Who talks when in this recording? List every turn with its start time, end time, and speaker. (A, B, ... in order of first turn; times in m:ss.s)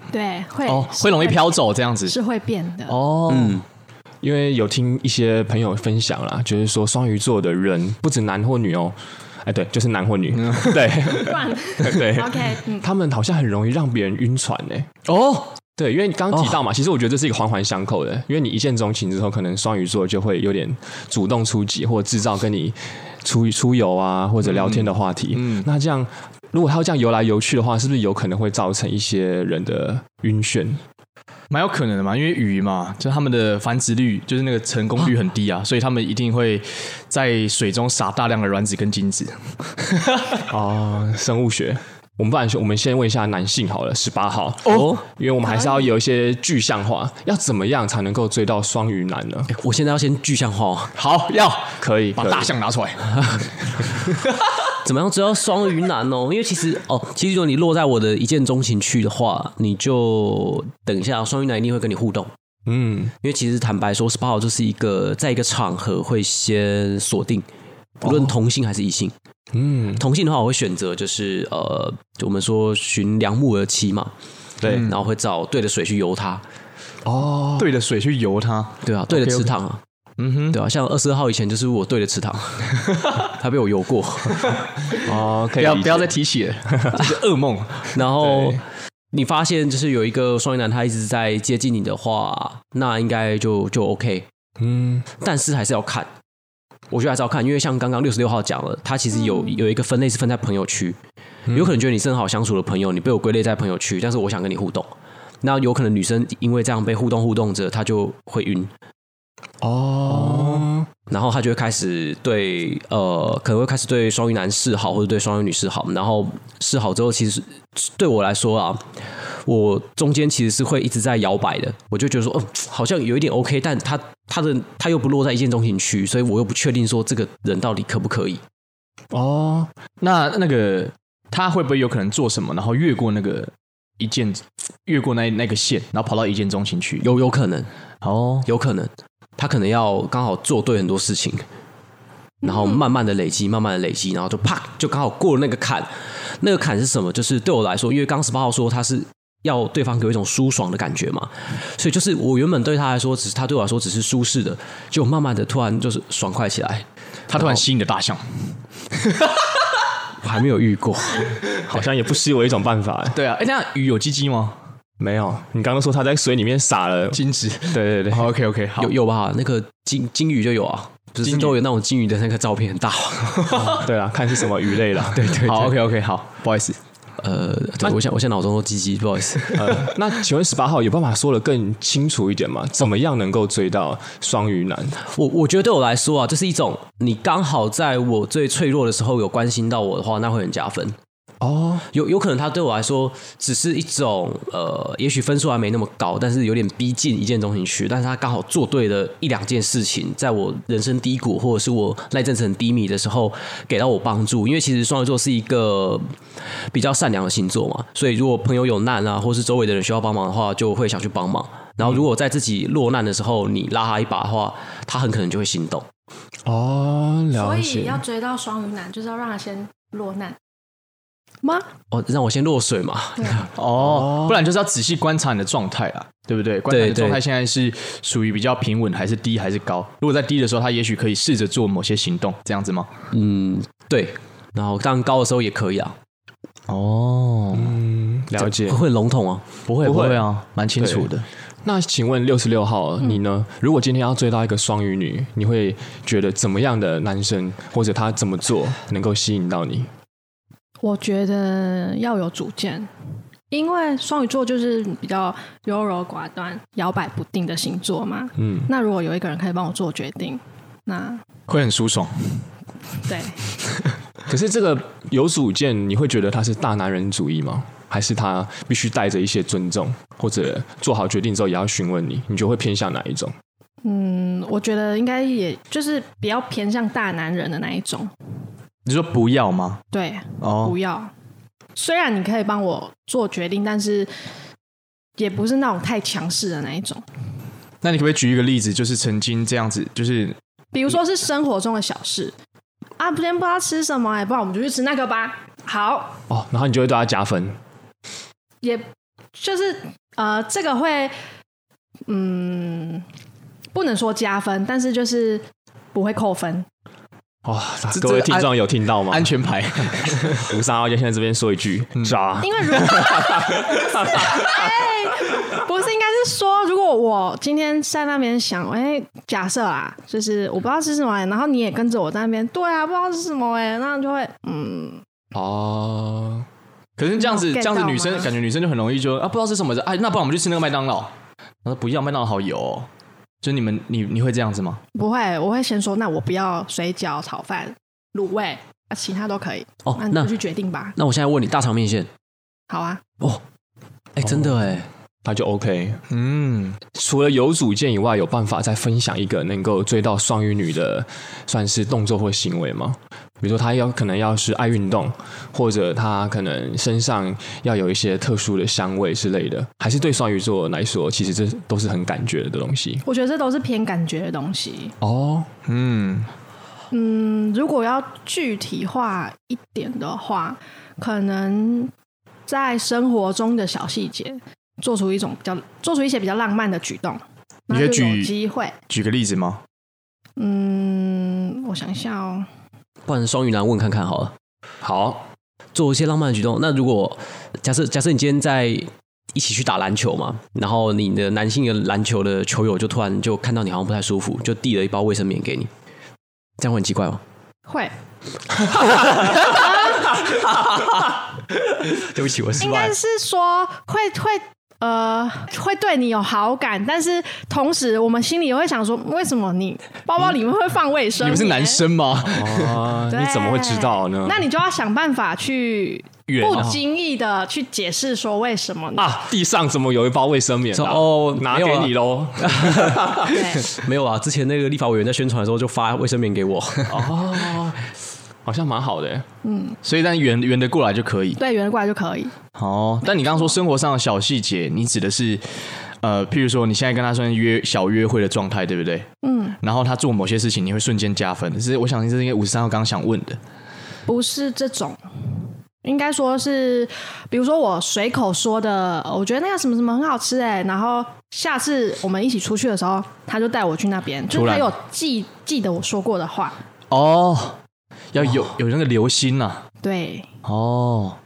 0:00.1-0:01.5 A
0:00.6-0:02.2 B
0:02.0-0:03.0 A
0:02.9-0:03.6 B
0:03.3-0:03.6 C
0:04.2-0:14.9 D
0:10.3-0:10.9 B
0:11.2-0:12.9 A
0:15.0-0:15.5 B
0:15.8-0:30.8 D
0:16.3-0:16.6 C
0:24.4-0:25.7 B
0:31.5-0:40.4 B
0:40.5-0:49.5 D
0:44.6-0:44.9 B
0:44.7-0:45.0 C
0:45.4-0:45.8 A
0:49.5-0:50.9 C
0:50.9-0:53.4 B
0:51.8-0:52.5 D
0:54.7-1:02.3 C
1:02.7-1:03.1 D
1:03.2-1:07.4 C
1:08.0-1:09.1 C
1:09.5-1:10.0 D
1:10.0-1:14.1 C
1:14.6-1:14.9 D
1:14.6-1:15.0 B
1:14.7-1:16.4 C
1:17.0-1:17.7 D
1:17.6-1:19.5 B
1:18.8-1:19.8 C
1:20.2-1:20.6 B
1:20.5-1:24.6 C
1:25.0-1:26.1 D
1:25.5-1:28.0 B
1:27.9-1:34.3 C
1:28.2-1:28.6 D
1:34.6-1:35.1 D
1:35.2-1:36.1 C
1:36.9-1:41.0 C
1:39.1-1:39.6 A
1:41.5-1:44.9 C
1:45.4-1:48.7 C
1:49.6-1:50.9 D
1:51.1-2:08.4 C
2:09.1-2:09.7 D
2:10.0-2:17.0 B
2:17.0-2:17.7 C
2:18.0-2:18.5 B
2:18.4-2:21.4 C
2:22.4-2:22.8 A
2:22.4-2:37.6 C
2:37.3-2:39.4 B
2:40.2-2:41.4 C
2:41.7-2:43.2 D
2:43.1-2:44.6 B
2:45.0-2:48.3 D
2:47.1-2:48.9 B
2:48.8-2:53.7 C
2:51.2-2:51.6 B
2:53.4-2:53.7 B
2:53.5-2:55.3 D
2:55.1-2:55.8 C
2:55.4-2:56.8 B
2:57.2-2:59.9 C
2:59.5-3:05.0 D
3:05.0-3:10.9 C
3:11.4-3:11.8 D
3:11.9-3:26.0 C
3:26.6-3:35.8 C
3:36.4-3:38.0 D
3:37.4-3:40.4 A
3:41.4-3:41.7 A
3:41.9-3:43.5 C
3:43.2-3:43.5 A
3:43.5-3:52.9 B
3:43.8-3:44.4 D
3:46.7-3:47.2 C
3:53.1-3:56.0 C
3:56.7-3:57.8 B
3:57.5-3:58.8 D
3:58.4-3:59.4 C
3:59.7-4:01.2 B
3:59.8-4:00.2 D
4:00.8-4:01.1 D
4:01.6-4:09.9 D
4:10.8-4:12.9 A
4:13.5-4:21.2 A
4:18.4-4:18.7 D
4:21.5-4:22.4 B
4:23.0-4:23.4 A
4:24.3-4:33.3 D
4:33.8-4:38.1 A
4:38.8-4:39.8 B
4:39.9-4:41.1 A
4:40.4-4:40.8 B
4:41.8-4:44.1 A
4:45.2-4:47.0 A
4:47.8-4:50.4 B
4:50.7-4:52.3 A
4:53.0-4:56.2 A
4:56.3-4:57.6 D
4:58.6-5:01.1 A
5:02.1-5:03.0 A
5:03.7-5:06.7 A
5:07.4-5:14.2 D
5:07.9-5:08.5 B
5:09.1-5:10.5 B
5:12.4-5:25.0 A
5:25.3-5:26.4 D
5:27.0-5:31.1 B
5:27.2-5:28.3 A
5:31.6-5:32.9 B
5:33.4-5:34.8 B
5:34.9-5:40.9 A
5:39.8-5:40.3 C
5:41.0-5:42.1 C
5:42.7-5:43.0 A
5:44.2-5:44.9 C
5:44.2-5:46.0 D
5:46.1-5:46.8 B
5:46.9-6:03.0 D
6:03.0-6:04.9 A
6:05.0-6:05.5 D
6:05.6-6:06.3 B
6:06.9-6:11.9 A
6:12.5-6:18.7 A
6:17.7-6:18.3 B
6:18.9-6:19.6 B
6:20.4-6:22.5 A
6:23.0-6:24.3 C
6:24.8-6:25.2 D
6:25.7-6:35.7 C
6:36.6-6:37.2 C
6:37.7-6:37.9 A
6:38.6-6:42.9 C
6:39.4-6:40.2 A
6:42.6-6:51.8 A
6:51.2-6:52.9 B
6:52.2-6:54.4 D
6:53.1-6:59.1 A
6:56.3-6:56.8 B
6:59.0-7:03.4 D
7:00.7-7:07.0 C
7:03.3-7:03.7 A
7:06.9-7:07.8 D
7:08.4-7:09.2 D
7:09.4-7:09.8 A
7:09.8-7:11.4 B
7:11.4-7:12.3 A
7:12.5-7:19.1 B
7:13.1-7:13.5 A
7:19.2-7:19.6 A
7:19.6-7:23.4 B
7:24.0-7:25.0 A
7:25.8-7:36.6 A
7:34.3-7:34.7 B
7:36.9-7:37.6 B
7:38.1-7:39.6 B
7:39.8-7:40.3 A
7:40.4-7:41.2 B